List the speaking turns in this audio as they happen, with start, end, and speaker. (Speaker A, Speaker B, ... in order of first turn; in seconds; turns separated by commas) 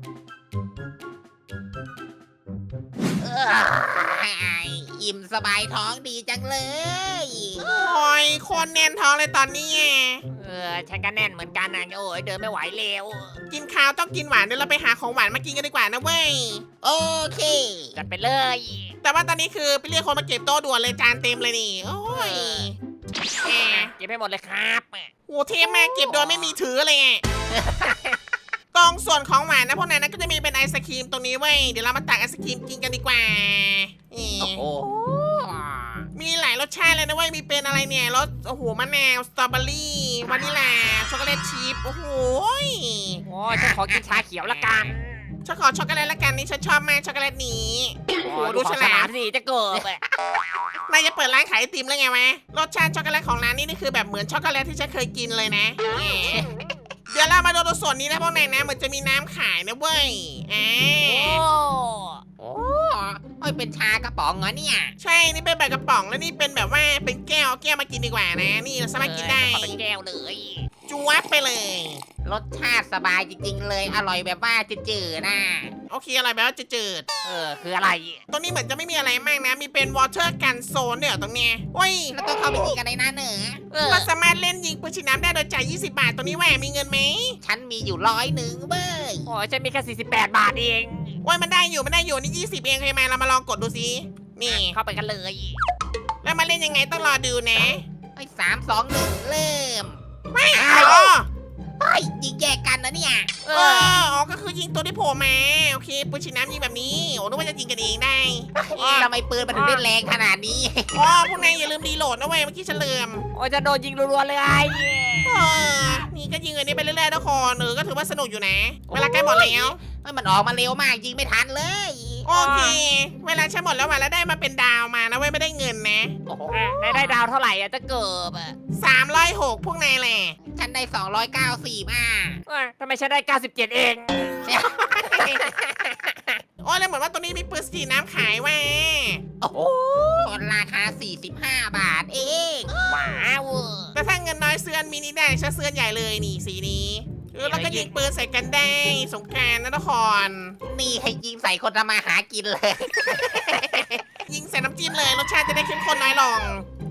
Speaker A: 3.2-7.7, Speaker B: 7.6-10.2, Speaker C: 10.3-13.4, Speaker B: 13.5-16.6, Speaker A: 16.8-18.0, Speaker C: 17.9-18.9, Speaker B: 19.0-22.8, Speaker C: 22.1-22.7, Speaker B: 23.4-23.9, Speaker C: 23.5-25.1, Speaker B: 25.3-27.2, Speaker A: 25.6-26.5, Speaker A: 27.5-28.0, Speaker B: 28.7-34.6, Speaker A: 34.4-36.1, Speaker B: 36.1-43.2, Speaker C: 43.2-45.3, Speaker A: 43.5-44.9, Speaker B: 45.4-49.1, Speaker C: 48.2-50.0, Speaker B: 50.9-56.5, Speaker B: 57.1-61.4, Speaker C: 61.0-62.2, Speaker A: 62.4-64.9, Speaker B: 65.0-69.8, Speaker C: 69.0-70.7, Speaker B: 70.9-72.0, Speaker A: 72.2-75.7, Speaker B: 75.9-77.0, Speaker C: 77.2-78.2, Speaker B: 78.3-82.2, Speaker A: 82.1-83.6, Speaker C: 83.7-84.1, Speaker B: 83.8-87.4, Speaker A: 87.4-89.3, Speaker C: 89.2-91.2, Speaker B: 91.2-94.8, Speaker C: 94.5-95.6, Speaker B: 96.2-97.8, Speaker A: 98.2-100.0, Speaker B: 100.3-101.3, Speaker A: 100.5-101.1, Speaker A: 101.8-103.4, Speaker C: 103.4-104.0, Speaker B: 103.5-109.1, Speaker A: 108.5-111.1, Speaker C: 109.5-109.8, Speaker B: 110.9-113.2, Speaker C: 113.3-115.4, Speaker B: 115.2-119.8, Speaker A: 118.9-122.3, Speaker B: 122.3-126.1, Speaker C: 122.3-122.8, Speaker A: 126.3-127.2, Speaker C: 126.5-128.6, Speaker B: 128.7-130.4, Speaker A: 130.4-132.4, Speaker C: 132.5-134.5, Speaker A: 134.4-135.5, Speaker C: 135.0-136.4, Speaker B: 136.6-139.2, Speaker A: 139.4-142.8, Speaker C: 142.8-143.9, Speaker B: 143.9-150.6, Speaker C: 147.4-147.9, Speaker A: 150.6-154.0, Speaker B: 154.2-156.7